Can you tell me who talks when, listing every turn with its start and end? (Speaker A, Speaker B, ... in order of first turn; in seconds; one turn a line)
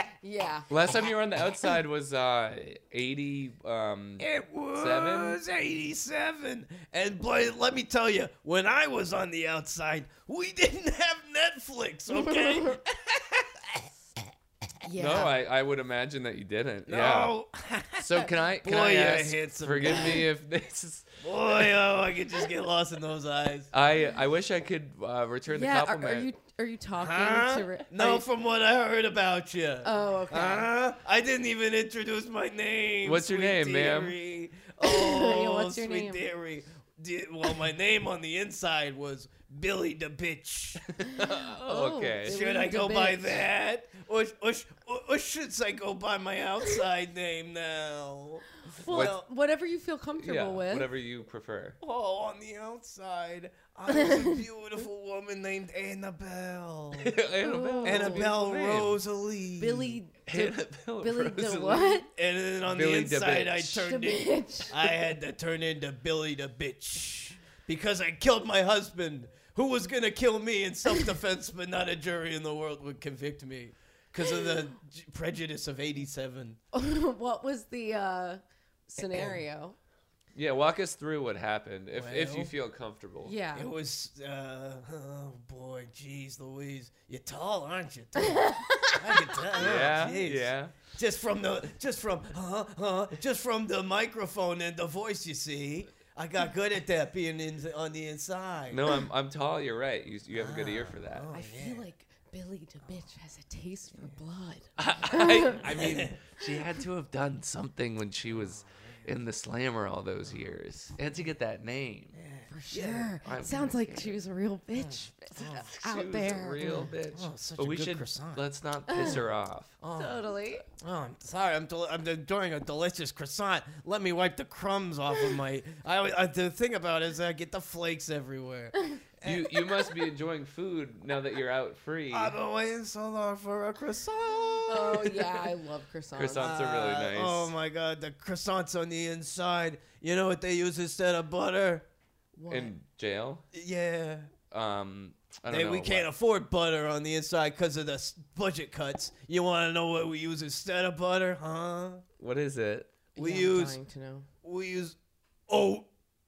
Speaker A: 0.2-0.9
Speaker B: 0.7-5.4
Speaker C: 4.2-13.8
Speaker A: 12.2-12.8
Speaker A: 14.8-15.3
Speaker B: 15.0-17.3
Speaker C: 16.9-20.3
Speaker B: 18.0-21.1
Speaker C: 21.2-23.7
Speaker B: 23.7-26.3
Speaker A: 25.5-28.2
Speaker C: 27.0-40.8
Speaker A: 29.8-30.7
Speaker B: 33.0-34.1
Speaker A: 34.8-36.2
Speaker B: 41.0-42.4
Speaker A: 41.1-43.4
Speaker C: 42.2-49.2
Speaker A: 48.7-50.9
Speaker B: 48.9-49.2
Speaker B: 50.2-51.8
Speaker C: 51.8-57.2
Speaker A: 53.9-54.4
Speaker B: 56.9-59.0
Speaker A: 57.4-58.3
Speaker C: 57.8-60.0
Speaker A: 59.6-62.1
Speaker B: 60.3-62.0
Speaker C: 62.1-76.6
Speaker B: 62.6-63.8
Speaker A: 63.8-64.7
Speaker A: 76.7-79.8
Speaker C: 79.0-79.4
Speaker B: 80.3-83.3
Speaker C: 81.9-82.5
Speaker A: 83.2-83.7
Speaker C: 83.5-98.9
Speaker A: 88.2-89.4
Speaker B: 89.5-90.7
Speaker B: 98.7-101.3
Speaker C: 100.3-101.8
Speaker A: 101.3-105.6
Speaker B: 104.8-112.2
Speaker C: 105.6-106.2
Speaker C: 112.1-113.1
Speaker A: 112.5-116.9
Speaker B: 113.2-114.2
Speaker C: 115.4-115.7
Speaker B: 115.4-119.8
Speaker C: 116.6-118.4
Speaker A: 118.9-119.2
Speaker C: 119.8-120.2
Speaker A: 119.9-120.6
Speaker C: 120.8-129.9
Speaker B: 129.2-132.3
Speaker C: 132.1-135.5
Speaker A: 134.7-136.9
Speaker B: 136.1-137.5
Speaker C: 136.3-141.8
Speaker A: 142.3-142.7
Speaker B: 142.5-143.4
Speaker C: 143.5-144.3
Speaker B: 144.5-146.1
Speaker C: 145.5-152.0
Speaker B: 152.2-152.9
Speaker A: 153.1-154.3
Speaker C: 153.2-153.8
Speaker C: 154.4-154.9
Speaker C: 155.5-155.9